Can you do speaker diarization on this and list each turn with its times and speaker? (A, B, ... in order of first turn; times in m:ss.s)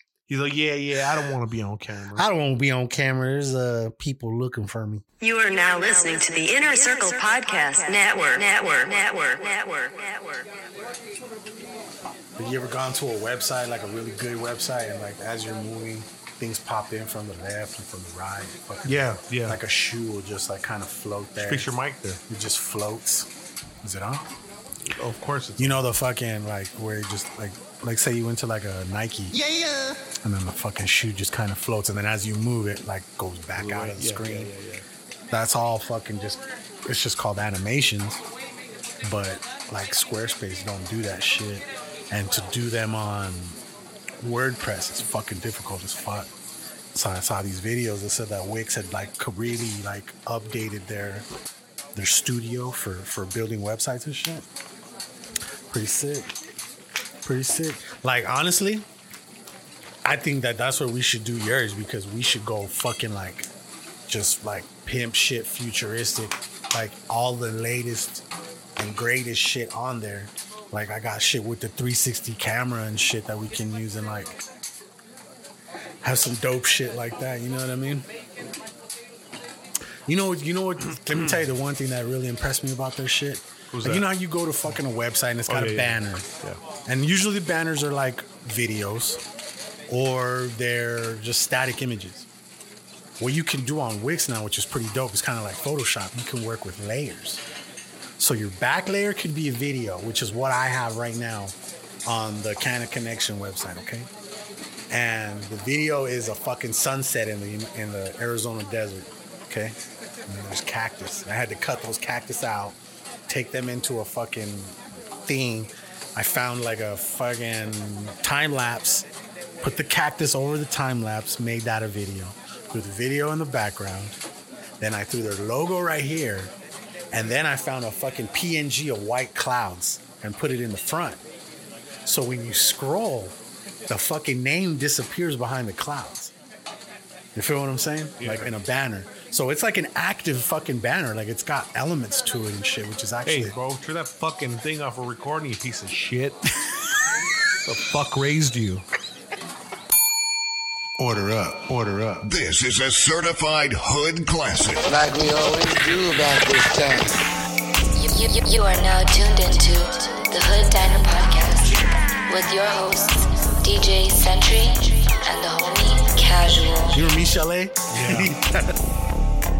0:00.3-0:02.2 A
0:02.1-0:05.0 B
0:05.2-0:10.4 C
0:12.4-0:21.7 B
0:18.8-0:19.6 A
0:21.4-0:22.2 A
0:22.3-0:23.3 B
0:23.8-0:24.3 B
0:24.9-0:25.7 A
0:25.6-0:29.4 B
0:30.2-0:34.5 B
0:33.5-0:34.8 A
0:35.3-0:38.2 B
0:39.0-0:43.6 B
0:44.2-0:46.3 B
0:46.9-0:51.3 B
0:51.9-0:54.5 B
0:55.7-0:56.3 B
0:57.2-0:58.8 B
1:00.0-1:03.5 B
1:04.1-1:08.2 B
1:08.8-1:14.4 B
1:16.0-1:18.1 B
1:20.1-1:26.3 B
1:23.7-1:24.1 A
1:25.5-1:26.6 A
1:26.8-1:29.2 B
1:29.9-1:32.3 B
1:33.2-1:37.4 B
1:38.2-1:44.1 B
1:44.9-1:59.1 B
1:59.6-2:04.2 B
2:04.8-2:06.5 B
2:07.1-2:11.2 B
2:12.0-2:13.4 B
2:13.9-2:16.3 B
2:17.3-2:23.5 B
2:18.2-2:18.5 A
2:23.2-2:26.4 A
2:27.6-2:28.8 A
2:31.0-2:32.3 B
2:32.2-2:34.9 D
2:34.8-2:37.1 E
2:38.0-2:47.0 F
2:46.9-2:48.8 B
2:47.9-2:48.3 A